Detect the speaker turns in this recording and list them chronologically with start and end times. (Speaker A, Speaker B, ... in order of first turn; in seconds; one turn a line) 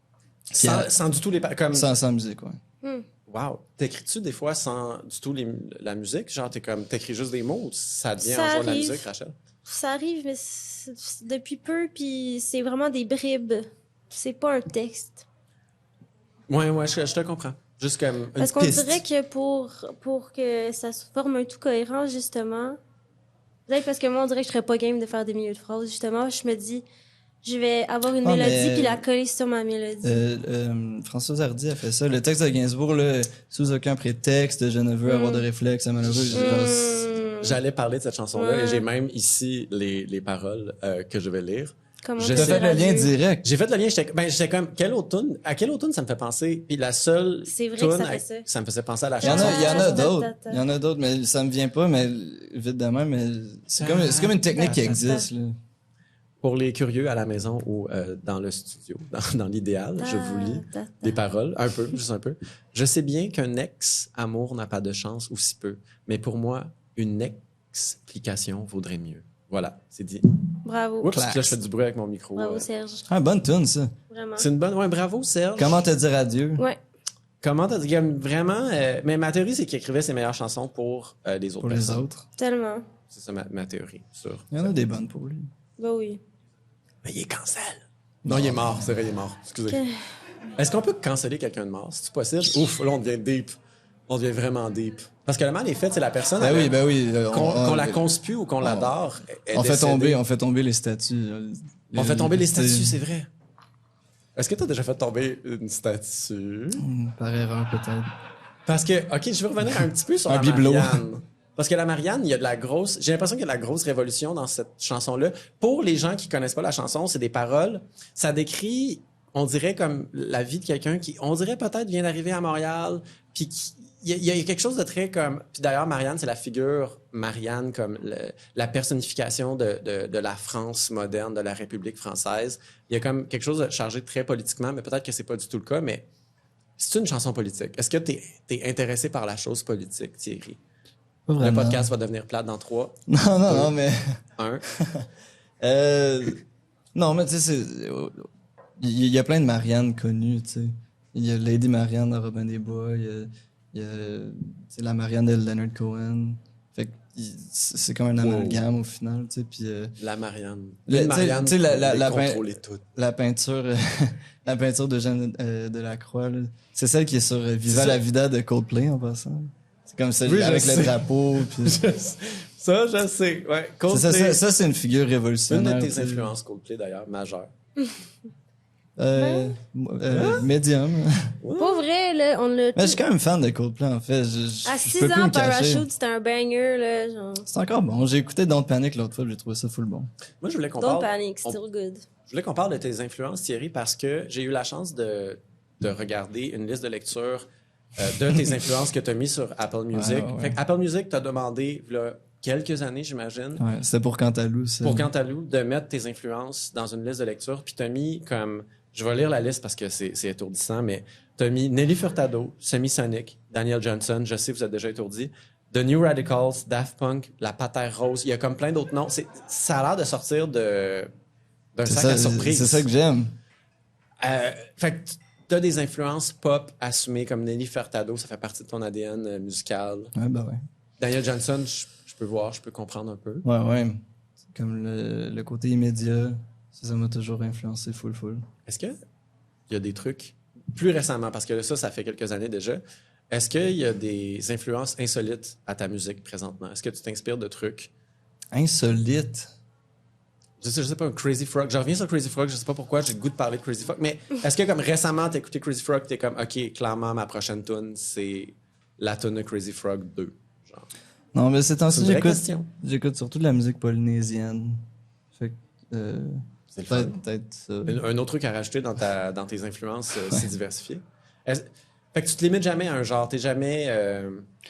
Speaker A: 0.5-1.9
Speaker B: 0.6-0.9
Speaker B: 1.7-2.6
Speaker A: 3.3-9.4
Speaker C: 8.2-9.1
Speaker C: 9.7-15.2
Speaker A: 16.5-19.0
Speaker C: 18.4-22.8
Speaker C: 23.7-26.8
Speaker C: 27.4-30.2
Speaker B: 28.2-29.0
Speaker B: 30.0-37.0
Speaker C: 35.1-35.5
Speaker A: 36.0-42.7
Speaker C: 36.4-37.6
Speaker C: 38.4-38.9
Speaker C: 42.0-43.1
Speaker B: 42.3-43.5
Speaker A: 43.4-50.0
Speaker C: 47.5-48.5
Speaker C: 49.2-50.6
Speaker B: 49.2-55.6
Speaker A: 53.8-55.0
Speaker C: 54.6-55.3
Speaker A: 56.4-70.4
Speaker C: 60.0-61.1
Speaker C: 70.7-71.1
Speaker A: 71.0-72.7
Speaker B: 71.1-71.5
Speaker C: 72.3-73.0
Speaker B: 73.1-74.0
Speaker C: 74.1-74.5
Speaker A: 74.4-75.8
Speaker B: 75.6-76.7
Speaker A: 77.4-82.1
Speaker B: 81.6-82.3
Speaker C: 82.4-82.9
Speaker A: 83.1-84.7
Speaker B: 84.5-85.5
Speaker C: 85.8-86.2
Speaker A: 87.0-89.8
Speaker B: 88.2-88.9
Speaker C: 89.7-90.0
Speaker A: 90.6-93.6
Speaker A: 94.1-96.8
Speaker B: 96.4-98.0
Speaker A: 97.3-100.2
Speaker B: 98.6-99.0
Speaker B: 99.5-103.0
Speaker A: 102.0-103.3
Speaker A: 104.4-106.8
Speaker B: 106.8-108.1
Speaker A: 108.7-136.1
Speaker B: 109.7-111.0
Speaker A: 136.8-140.6
Speaker B: 141.3-141.9
Speaker A: 141.3-143.7
Speaker B: 143.1-145.1
Speaker A: 144.4-144.7
Speaker B: 145.6-146.4
Speaker B: 146.9-148.3
Speaker B: 148.8-160.0
Speaker A: 158.2-158.6
Speaker A: 160.0-162.8
Speaker B: 160.9-171.8
Speaker A: 167.7-168.0
Speaker A: 170.2-174.4
Speaker B: 173.9-176.3
Speaker A: 175.5-177.5
Speaker B: 179.0-181.3
Speaker C: 179.2-179.5
Speaker A: 180.1-180.5
Speaker A: 181.4-181.8
Speaker C: 181.6-183.0
Speaker B: 182.8-185.9
Speaker C: 184.7-187.5
Speaker B: 187.5-190.1
Speaker A: 190.4-191.6
Speaker C: 190.8-192.0
Speaker A: 192.3-197.5
Speaker A: 198.0-203.7
Speaker B: 199.9-200.6
Speaker B: 203.6-205.1
Speaker A: 204.8-221.1
Speaker A: 221.8-222.9
Speaker B: 221.9-223.4
Speaker A: 224.2-230.1
Speaker B: 230.2-230.6
Speaker A: 231.0-233.4
Speaker B: 233.4-234.0
Speaker B: 234.5-238.4
Speaker A: 238.7-239.0
Speaker A: 239.7-247.9
Speaker B: 248.5-249.5
Speaker A: 250.6-260.9
Speaker B: 261.3-268.0
Speaker A: 261.9-262.7
Speaker A: 266.7-267.2
Speaker A: 267.9-274.5